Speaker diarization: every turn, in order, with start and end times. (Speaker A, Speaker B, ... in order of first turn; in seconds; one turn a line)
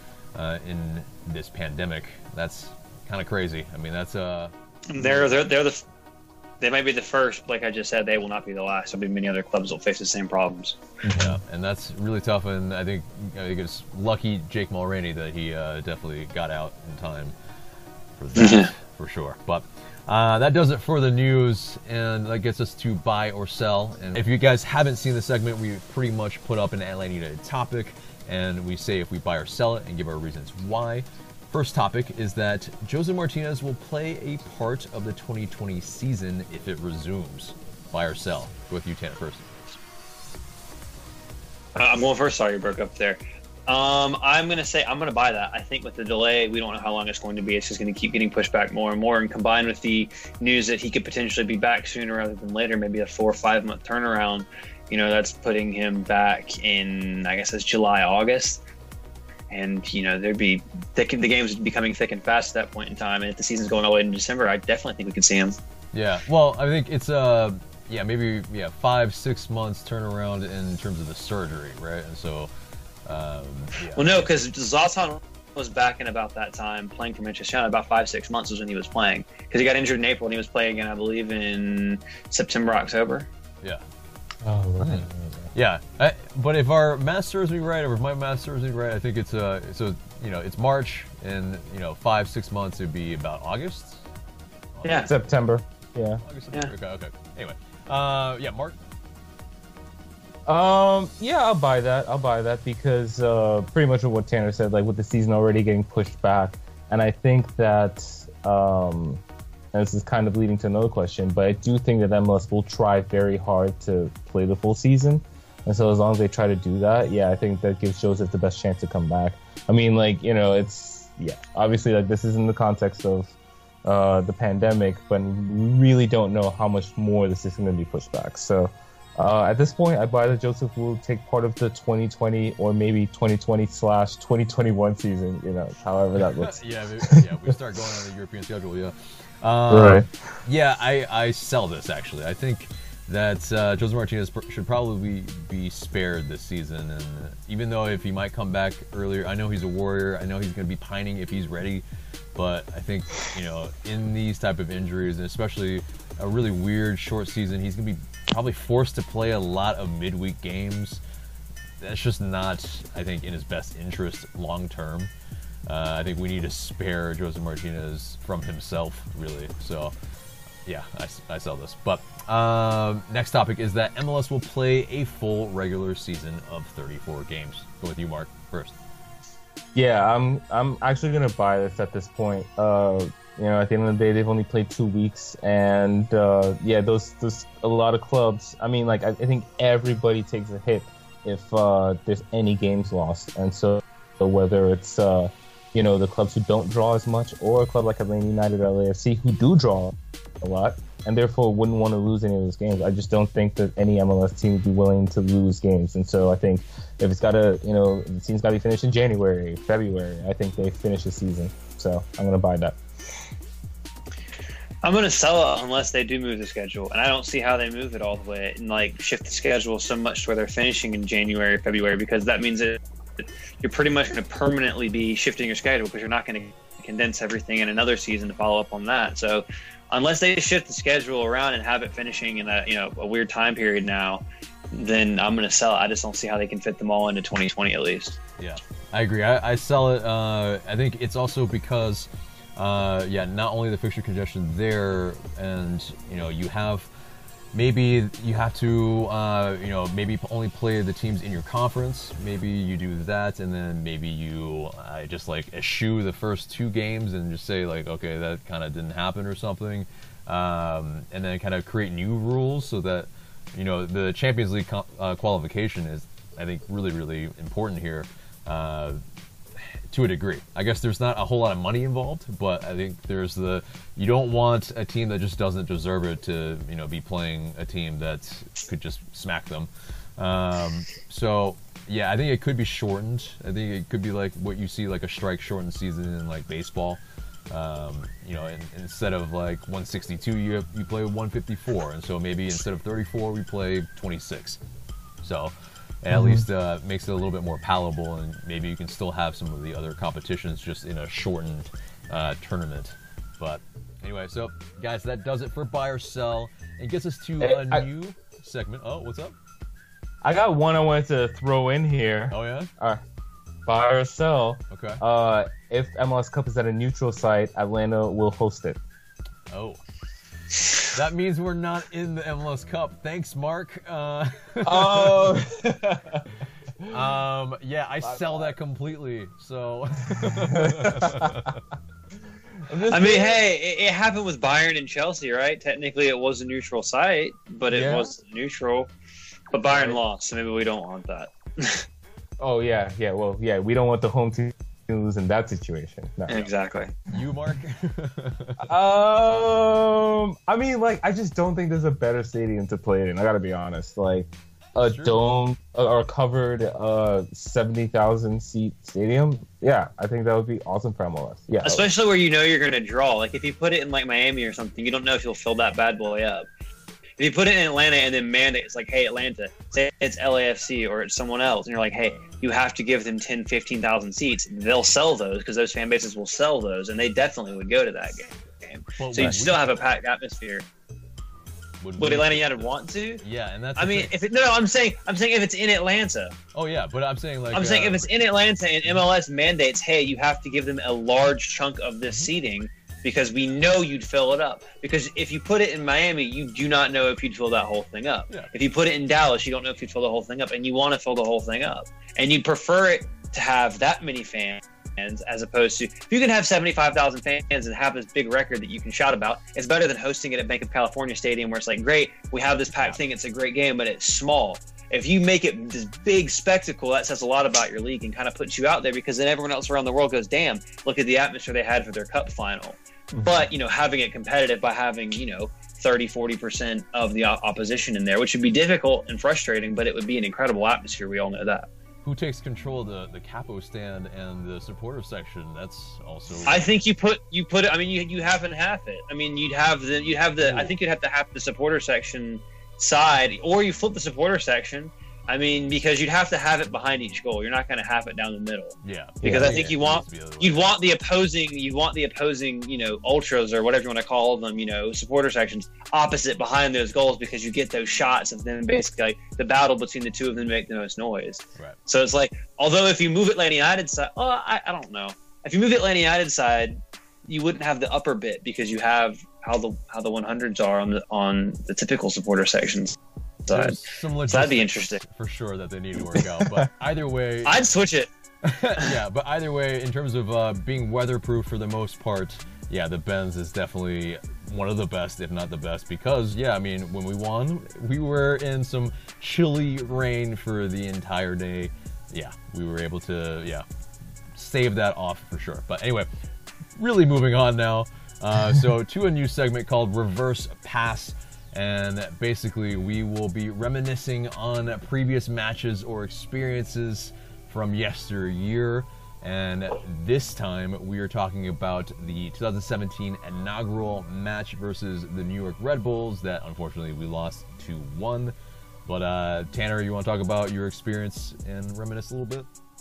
Speaker A: 0.3-5.3
Speaker B: 4.9-5.8
Speaker B: 6.6-10.8
Speaker C: 11.1-11.4
Speaker A: 11.1-17.3
Speaker A: 18.2-39.6
Speaker B: 18.4-18.7
Speaker B: 41.8-58.6
Speaker B: 59.5-65.6
Speaker A: 65.9-72.5
Speaker A: 73.1-74.3
Speaker B: 74.0-83.3
Speaker C: 84.4-85.5
Speaker A: 84.8-94.0
Speaker A: 94.7-95.1
Speaker B: 94.8-95.1
Speaker C: 95.0-96.2
Speaker A: 96.2-98.8
Speaker C: 100.5-137.2
Speaker A: 136.2-151.8
Speaker C: 139.7-140.1
Speaker A: 152.3-161.0
Speaker A: 161.8-165.1
Speaker A: 165.7-169.9
Speaker A: 170.7-178.8
Speaker C: 179.8-212.8
Speaker B: 214.8-238.2
Speaker A: 238.4-246.9
Speaker A: 247.5-269.0
Speaker A: 269.9-294.6
Speaker A: 295.2-309.4
Speaker C: 296.1-296.4
Speaker C: 307.4-307.8
Speaker C: 310.2-313.0
Speaker A: 312.3-312.7
Speaker C: 313.7-318.8
Speaker A: 314.7-315.0
Speaker A: 319.5-319.8
Speaker A: 320.9-325.4
Speaker C: 324.6-326.3
Speaker A: 326.9-331.6
Speaker C: 328.1-328.5
Speaker C: 330.1-331.5
Speaker C: 332.7-333.4
Speaker B: 332.9-338.9
Speaker C: 337.7-338.1
Speaker B: 339.5-341.9
Speaker C: 339.7-340.0
Speaker C: 342.4-346.4
Speaker B: 346.3-346.9
Speaker A: 347.1-348.7
Speaker C: 348.6-361.9
Speaker A: 354.8-355.2
Speaker B: 361.6-366.5
Speaker B: 367.2-380.6
Speaker A: 379.0-379.8
Speaker A: 381.8-384.1
Speaker B: 382.0-383.2
Speaker B: 383.8-386.4
Speaker A: 386.5-388.1
Speaker B: 387.5-431.7
Speaker C: 423.1-423.4
Speaker A: 432.1-436.6
Speaker B: 436.5-475.0
Speaker C: 440.4-440.7
Speaker A: 448.8-450.8
Speaker C: 449.2-449.7
Speaker A: 473.5-477.6
Speaker B: 477.5-478.1
Speaker A: 478.4-493.6
Speaker A: 494.4-496.1
Speaker A: 496.8-518.4
Speaker A: 518.9-522.5